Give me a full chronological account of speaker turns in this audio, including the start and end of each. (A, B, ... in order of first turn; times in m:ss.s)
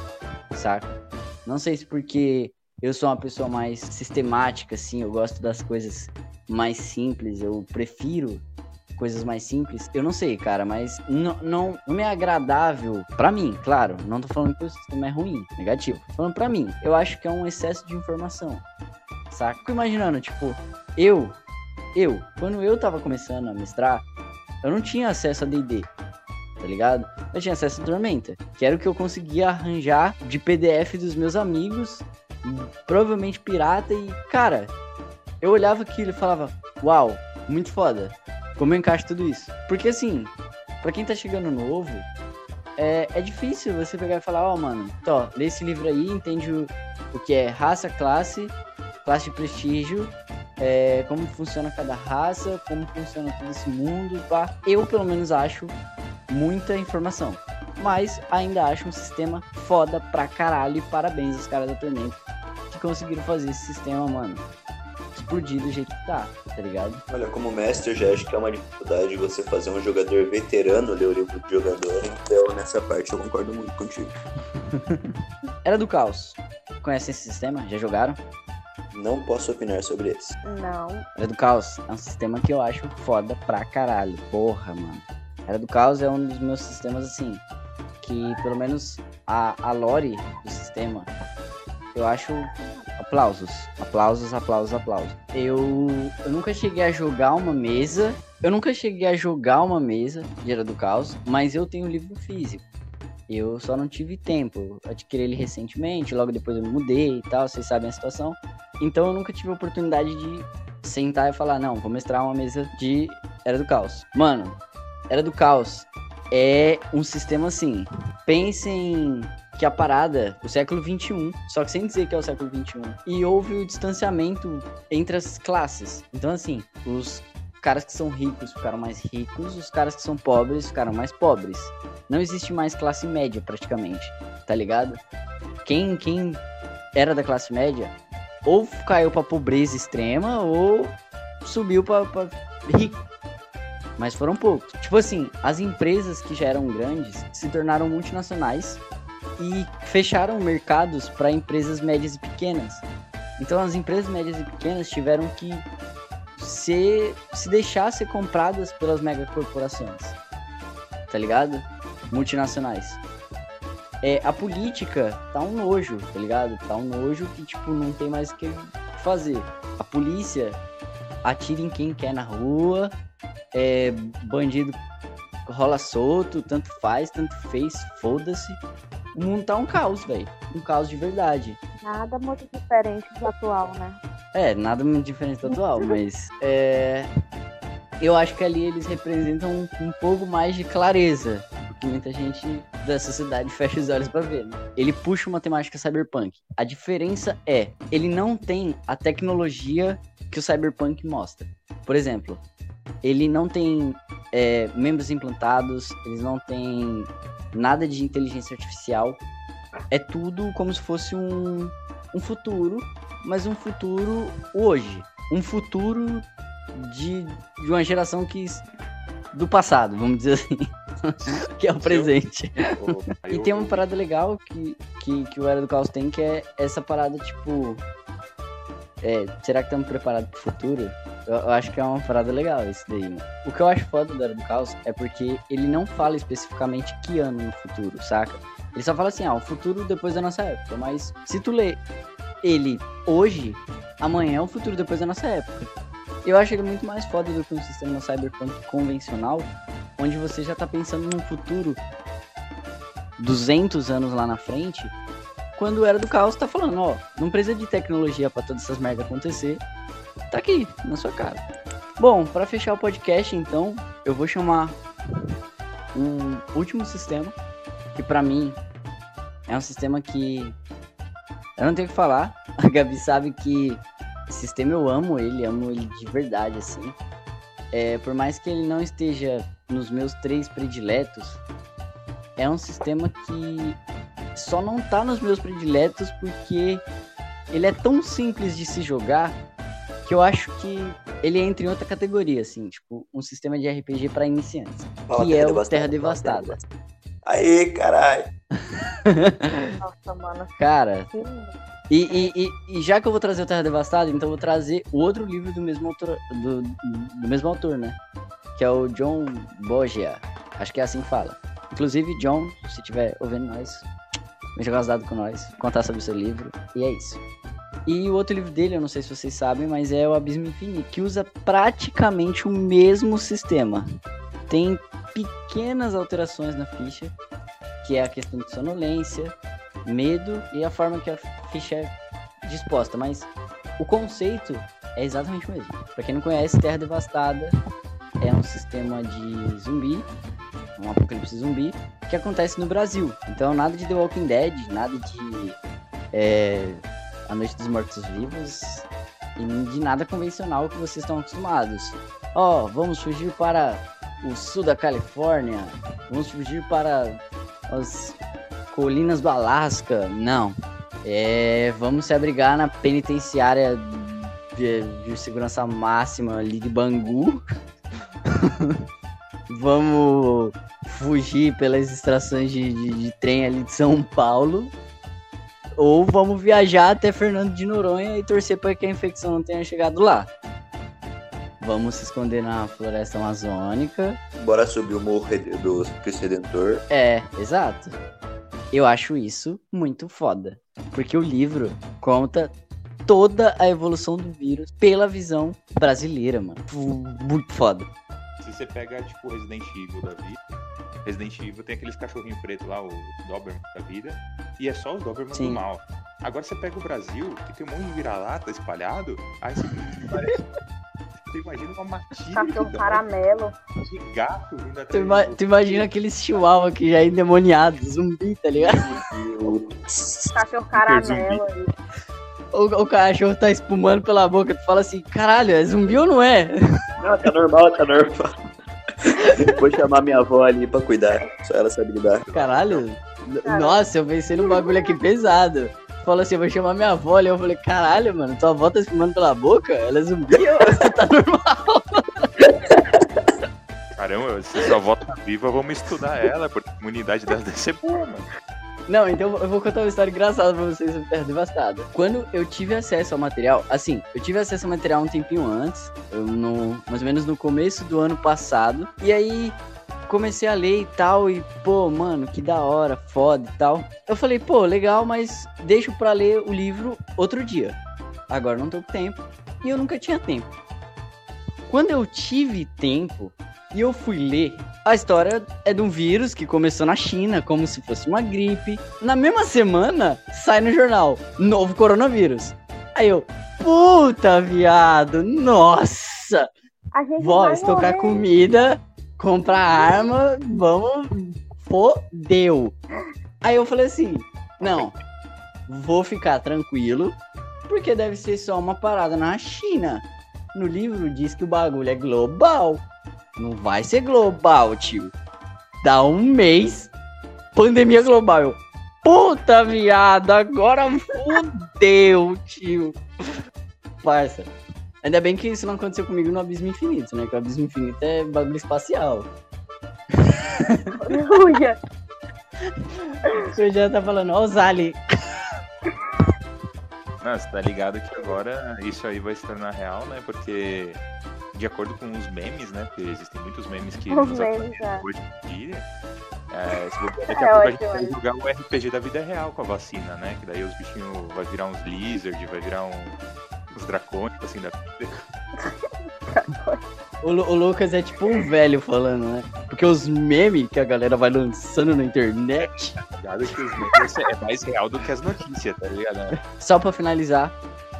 0:00.5-0:08.4 A
0:09.0-0:18.6 A
0:19.3-0:21.4 A
0:21.9-0:24.0 A
0:24.6-0:25.9 A
0:26.6-0:34.7 A
0:35.4-0:42.1 A
0:42.8-0:55.7 A
0:56.3-1:02.2 A
1:02.7-1:04.4 A
1:05.1-1:07.0 A
1:07.1-1:14.1 B
1:14.7-1:15.1 A
1:15.6-1:18.2 A
1:18.9-1:20.3 B
1:20.4-1:21.0 C
1:21.2-1:27.4 A
1:28.0-1:31.1 A
1:31.9-1:42.6 A
1:43.3-1:54.6 A
1:55.1-2:15.0 A
2:15.6-2:16.4 A
2:16.9-2:17.9 A
2:18.4-2:23.0 A
2:24.0-2:28.8 A
2:29.4-2:32.8 A
2:33.4-2:35.7 A
2:36.4-2:40.2 A
2:41.1-2:43.0 A
2:44.0-2:50.6 A
2:51.2-2:52.9 A
2:53.5-2:54.8 A
2:55.5-2:58.6 A
2:59.1-3:01.6 A
3:01.8-3:04.0 C
3:04.3-3:07.1 A
3:08.0-3:22.4 A
3:23.0-3:29.2 A
3:29.9-3:38.6 A
3:39.3-3:42.5 A
3:41.2-3:42.1 D
3:42.8-3:43.8 D
3:43.3-3:47.8 A
3:49.0-4:01.8 A
4:02.4-4:05.7 A
4:06.2-4:11.8 A
4:13.2-4:14.9 A
4:15.6-4:19.6 A
4:20.3-4:21.4 A
4:22.0-4:24.8 A
4:25.9-4:27.4 A
4:28.0-4:28.6 A
4:29.5-4:30.6 A
4:31.6-4:37.0 A
4:37.7-4:41.4 A
4:42.4-4:43.8 A
4:44.3-4:46.8 A
4:47.5-4:49.4 A
4:50.0-4:56.6 A
4:55.1-4:56.6 B
4:57.2-4:58.3 B
4:59.1-4:59.7 A
4:59.8-5:00.6 C
5:00.6-5:01.1 A
5:01.1-5:01.6 C
5:01.9-5:08.0 A
5:08.5-5:13.8 A
5:14.5-5:17.2 A
5:17.8-5:23.9 A
5:24.5-5:27.1 A
5:27.8-5:37.5 A
5:38.2-5:40.1 A
5:40.8-5:45.6 A
5:46.1-5:48.8 A
5:49.4-5:58.2 A
5:58.7-6:07.4 A
6:08.3-6:08.7 A
6:09.5-6:14.7 A
6:15.8-6:20.3 A
6:21.6-6:24.2 A
6:24.4-6:26.8 B
6:26.9-6:27.9 A
6:28.7-6:32.5 A
6:33.1-6:37.9 A
6:38.4-6:40.4 D
6:41.0-6:50.4 D
6:45.3-6:45.6 A
6:51.2-6:53.0 D
6:52.4-6:53.6 C
6:53.8-6:56.4 D
6:54.9-6:58.8 A
6:58.6-7:00.3 B
7:00.3-7:01.7 C
7:00.8-7:01.4 D
7:02.5-7:06.5 A
7:07.0-7:08.3 B
7:09.0-7:12.2 B
7:12.2-7:12.8 D
7:12.3-7:22.2 A
7:13.4-7:13.8 C
7:14.4-7:14.9 C
7:23.0-7:23.3 B
7:24.0-7:28.3 D
7:28.9-7:47.8 A
7:48.3-7:50.5 A
7:51.7-8:06.4 A
8:06.9-8:08.2 C
8:07.2-8:12.7 A
8:13.4-8:14.9 A
8:15.7-8:17.2 A
8:17.7-8:22.8 A
8:23.4-8:25.1 A
8:25.8-8:26.9 A
8:27.5-8:33.0 A
8:34.0-8:39.3 A
8:40.2-8:40.9 A
8:40.6-8:41.8 C
8:43.5-8:45.0 A
8:47.2-8:51.0 D
8:51.5-8:55.9 D
8:54.1-8:55.0 C
8:56.5-9:03.2 D
8:57.3-8:58.1 C
9:03.7-9:05.2 D
9:06.3-9:06.8 C
9:07.2-9:13.0 A
9:13.1-9:16.4 D
9:16.6-9:17.6 A